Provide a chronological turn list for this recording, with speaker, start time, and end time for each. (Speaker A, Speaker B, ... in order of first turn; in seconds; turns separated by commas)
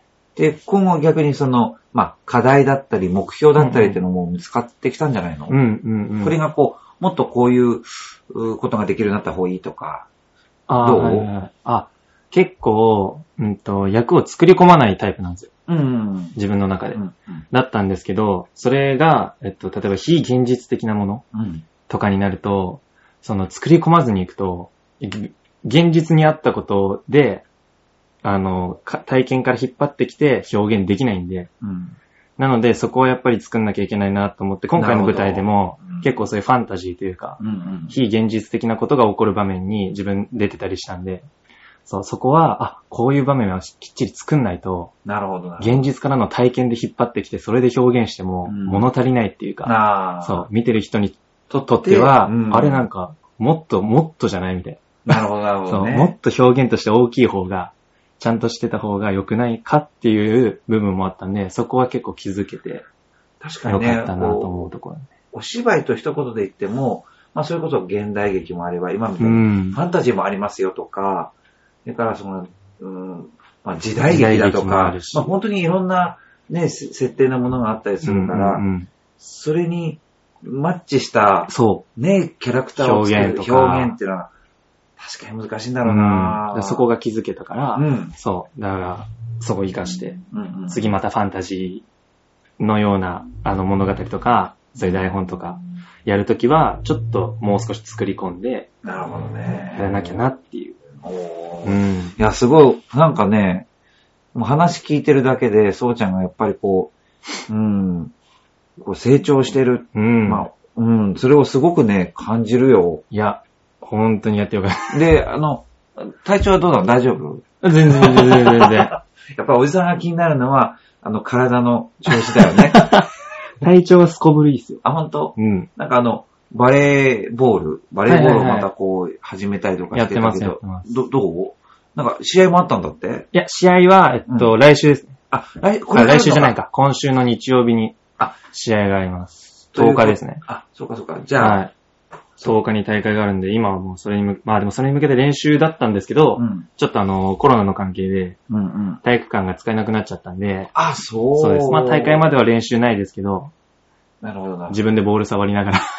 Speaker A: 0.3-5.6, Speaker B: 3.6-4.0, Speaker B: 5.5-6.4, Speaker A: 6.2-10.1, Speaker B: 10.7-15.5, Speaker A: 10.8-11.3, Speaker A: 15.7-16.4, Speaker B: 16.4-21.2, Speaker A: 16.9-17.4, Speaker A: 21.3-21.6, Speaker B: 21.9-27.4, Speaker B: 28.2-31.5, Speaker A: 31.6-32.0, Speaker B: 32.4-37.4, Speaker A: 34.7-36.1, Speaker A: 37.4-38.0, Speaker B: 37.9-41.3, Speaker B: 41.8-44.9, Speaker A: 45.0-45.9, Speaker B: 45.6-62.8, Speaker A: 48.5-48.9, Speaker A: 49.6-50.5, Speaker A: 51.5-52.9, Speaker A: 55.0-56.1, Speaker A: 63.4-64.6, Speaker B: 63.6-65.1, Speaker A: 65.3-71.3, Speaker B: 69.2-69.8, Speaker A: 71.8-78.6, Speaker B: 74.0-75.3, Speaker B: 78.0-78.9, Speaker A: 79.2-84.3, Speaker B: 81.5-81.8, Speaker B: 82.8-83.9, Speaker A: 85.0-86.9, Speaker B: 85.8-91.8, Speaker A: 87.7-88.1, Speaker A: 89.9-90.9, Speaker B: 92.6-98.7, Speaker A: 98.8-100.2, Speaker B: 99.8-100.8, Speaker A: 101.0-103.7, Speaker B: 101.6-102.1, Speaker A: 104.3-106.9, Speaker A: 107.5-108.1, Speaker A: 108.8-113.0, Speaker B: 109.9-110.5, Speaker B: 113.1-115.1, Speaker A: 114.9-122.9, Speaker B: 117.6-118.9, Speaker B: 122.7-123.1, Speaker B: 123.6-124.8, Speaker A: 124.8-133.3, Speaker B: 125.4-125.7, Speaker B: 128.1-128.7, Speaker B: 129.9-130.9, Speaker B: 133.3-135.2, Speaker A: 135.3-136.6, Speaker B: 135.9-140.4, Speaker A: 139.7-141.6, Speaker B: 141.4-141.7, Speaker B: 142.4-148.4, Speaker A: 146.4-146.7, Speaker A: 148.5-149.0, Speaker B: 149.0-150.7, Speaker A: 150.7-152.3, Speaker B: 151.3-153.5, Speaker A: 154.2-154.8, Speaker B: 154.7-155.8